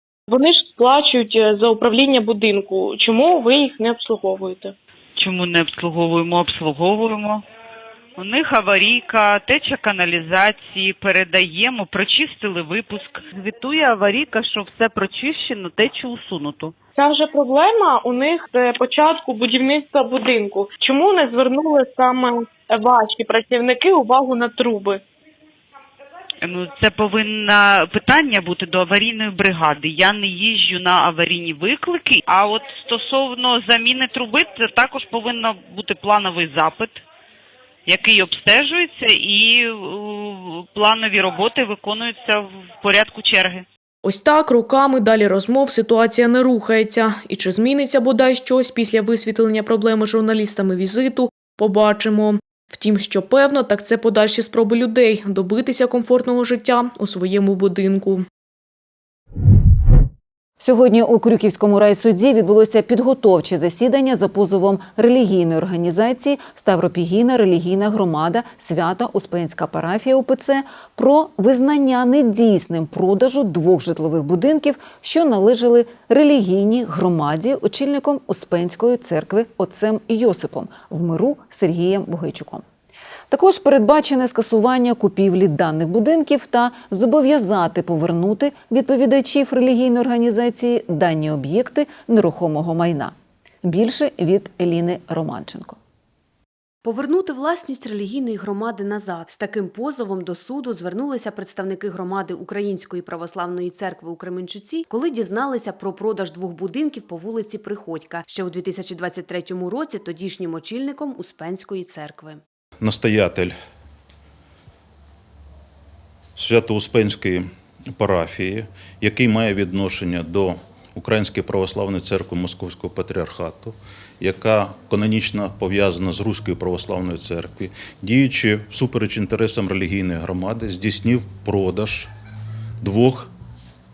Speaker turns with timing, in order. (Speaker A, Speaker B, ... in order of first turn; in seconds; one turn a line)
Speaker A: 0.3-4.7
Speaker B: 5.2-7.4
Speaker B: 8.2-16.7
Speaker A: 16.9-25.0
Speaker B: 26.4-37.0
Speaker B: 37.9-43.6
Speaker C: 44.0-58.2
Speaker D: 60.6-82.6
Speaker D: 83.3-95.8
Speaker E: 96.8-112.4
Speaker F: 112.8-113.5
Speaker F: 116.3-132.1
Speaker F: 132.8-133.3